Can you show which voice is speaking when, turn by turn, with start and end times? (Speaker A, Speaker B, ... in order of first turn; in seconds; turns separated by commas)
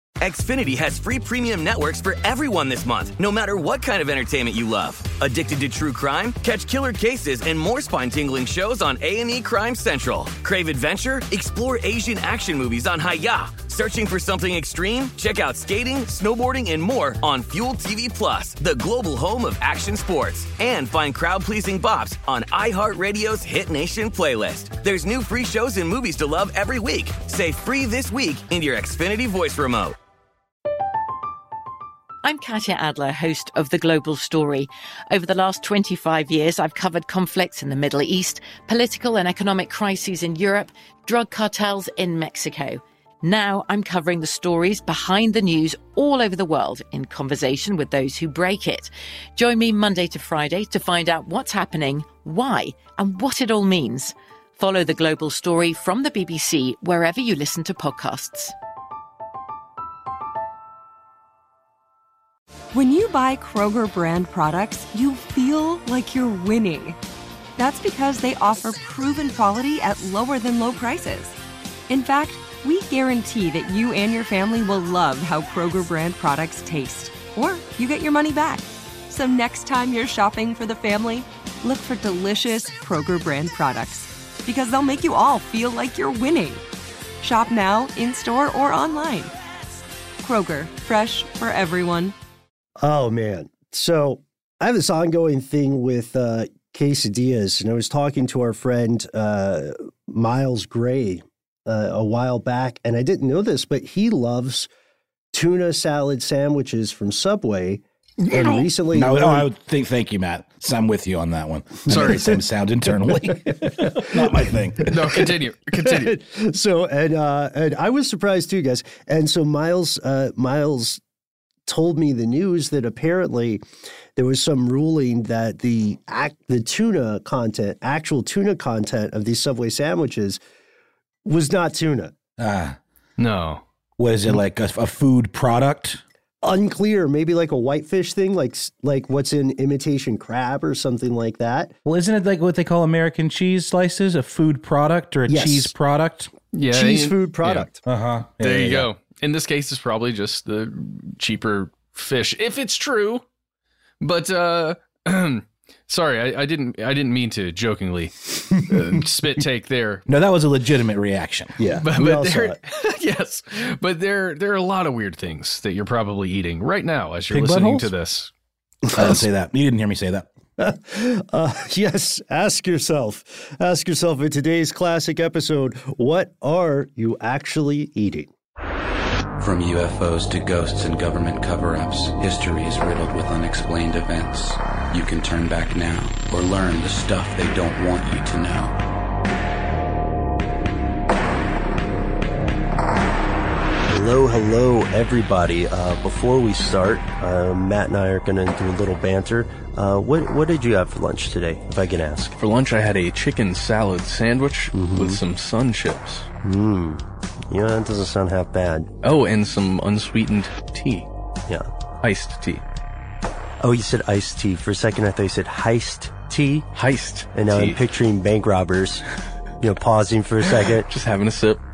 Speaker A: 0.2-30.0, Speaker B: 32.2-58.5, Speaker C: 62.7-67.0, Speaker C: 67.6-71.3, Speaker C: 71.9-86.6, Speaker C: 87.2-89.3, Speaker C: 90.2-92.1, Speaker D: 92.8-104.7, Speaker D: 105.3-109.5, Speaker E: 108.3-115.2, Speaker F: 111.9-112.2, Speaker F: 114.8-116.1, Speaker D: 115.8-121.0, Speaker D: 121.7-123.6, Speaker D: 124.2-130.4, Speaker D: 131.2-132.1, Speaker E: 132.4-132.8, Speaker F: 133.2-133.6, Speaker E: 134.0-136.0, Speaker D: 136.4-141.7, Speaker E: 141.8-146.3, Speaker D: 145.3-145.7, Speaker F: 146.6-147.7, Speaker D: 146.7-147.8, Speaker G: 146.7-147.1, Speaker E: 147.9-148.9, Speaker F: 148.4-153.2, Speaker F: 154.0-155.0, Speaker G: 155.1-155.4, Speaker F: 155.9-158.1, Speaker F: 158.7-160.0, Speaker E: 160.1-161.6, Speaker D: 161.6-162.6, Speaker F: 161.8-168.3, Speaker E: 167.3-167.9, Speaker E: 168.9-170.3, Speaker D: 170.6-178.3, Speaker H: 179.4-188.8, Speaker D: 193.9-202.4, Speaker G: 202.4-206.3, Speaker D: 204.7-205.2, Speaker D: 206.4-208.9, Speaker G: 209.0-211.1, Speaker G: 212.0-212.6, Speaker D: 213.6-216.7, Speaker G: 216.8-217.8, Speaker D: 217.3-219.0, Speaker D: 219.6-220.8, Speaker G: 220.8-221.6